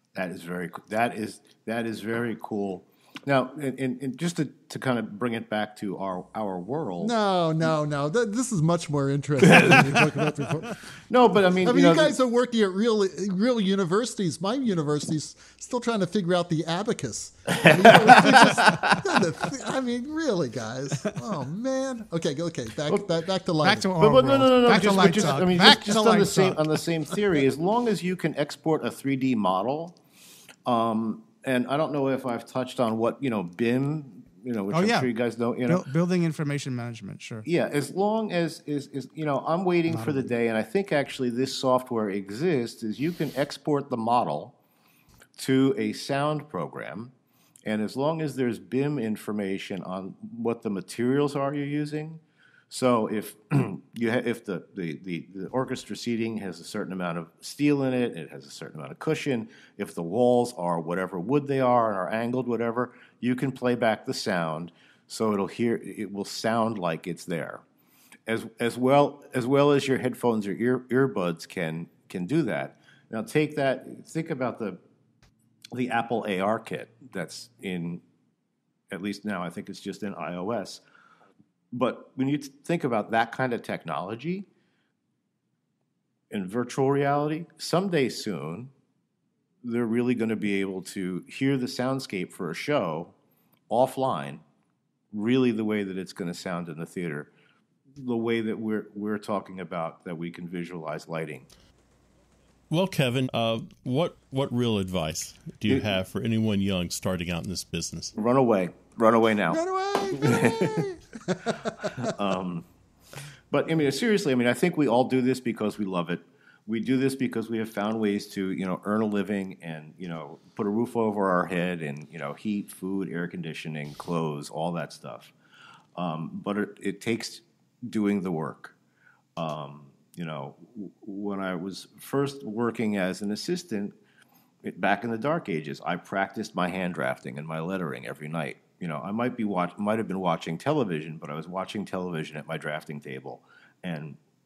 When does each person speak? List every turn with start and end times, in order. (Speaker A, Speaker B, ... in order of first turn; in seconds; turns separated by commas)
Speaker A: 0.1-7.2, Speaker B: 7.0-10.8, Speaker A: 9.4-10.0, Speaker A: 11.1-12.2, Speaker B: 11.6-24.4, Speaker A: 17.5-19.1, Speaker C: 23.6-26.6, Speaker A: 24.0-30.0, Speaker A: 30.7-35.8, Speaker C: 34.7-35.1, Speaker C: 35.7-37.5, Speaker A: 37.5-44.5, Speaker C: 39.9-40.3, Speaker A: 45.4-47.1, Speaker A: 47.6-67.6, Speaker A: 68.3-74.8, Speaker A: 75.7-78.0, Speaker A: 78.9-80.8, Speaker A: 81.7-84.5, Speaker A: 86.3-88.7, Speaker A: 89.6-93.2, Speaker A: 93.7-94.4, Speaker A: 95.1-97.3, Speaker A: 98.0-101.5, Speaker D: 102.7-108.1, Speaker A: 108.2-109.6, Speaker B: 109.5-112.0, Speaker A: 110.1-110.9, Speaker A: 111.8-112.7, Speaker A: 113.5-125.3, Speaker A: 126.0-128.8, Speaker A: 129.4-133.9, Speaker A: 134.6-144.2